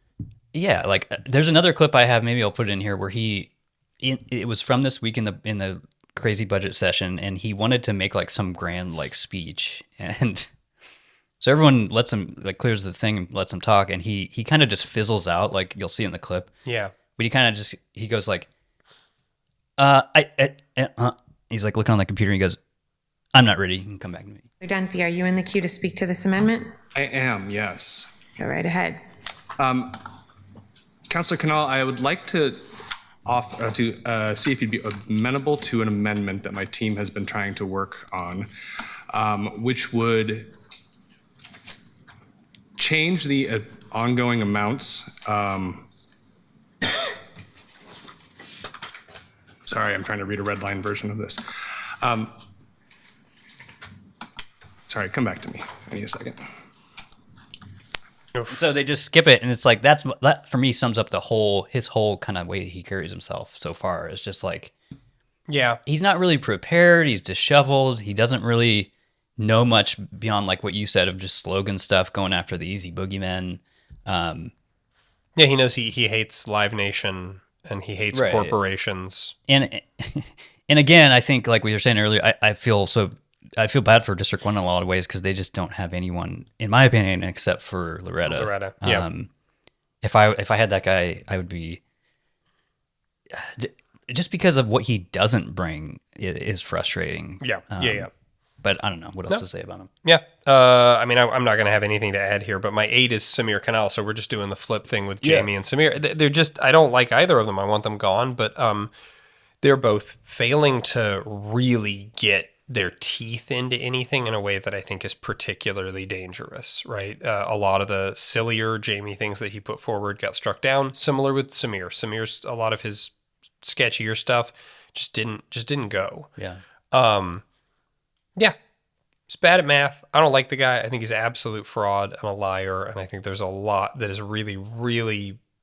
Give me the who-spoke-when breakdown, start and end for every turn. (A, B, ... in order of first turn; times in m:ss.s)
0:00.5-0:10.5 A
0:11.4-0:16.5 A
0:16.6-0:16.9 B
0:17.2-0:18.5 A
0:19.8-0:22.6 A
0:23.4-0:24.4 A
0:24.6-0:26.7 C
0:27.0-0:28.2 D
0:28.4-0:29.0 C
0:29.6-0:30.0 D
0:31.1-0:32.7 D
0:33.3-0:38.5 D
0:39.1-0:40.5 D
0:42.8-0:45.9 D
0:49.7-0:51.4 D
0:52.0-0:52.3 D
0:54.9-0:56.4 D
0:58.5-1:04.7 A
1:05.5-1:05.8 B
1:05.9-1:14.5 A
1:15.4-1:19.4 B
1:18.1-1:18.6 A
1:19.5-1:29.3 A
1:28.3-1:29.1 B
1:30.0-1:31.8 A
1:33.3-1:38.1 A
1:37.4-1:38.1 B
1:38.6-1:39.9 A
1:40.0-1:48.9 B
1:45.2-1:45.5 A
1:49.6-2:06.3 B
2:06.9-2:07.4 B
2:09.3-2:15.4 B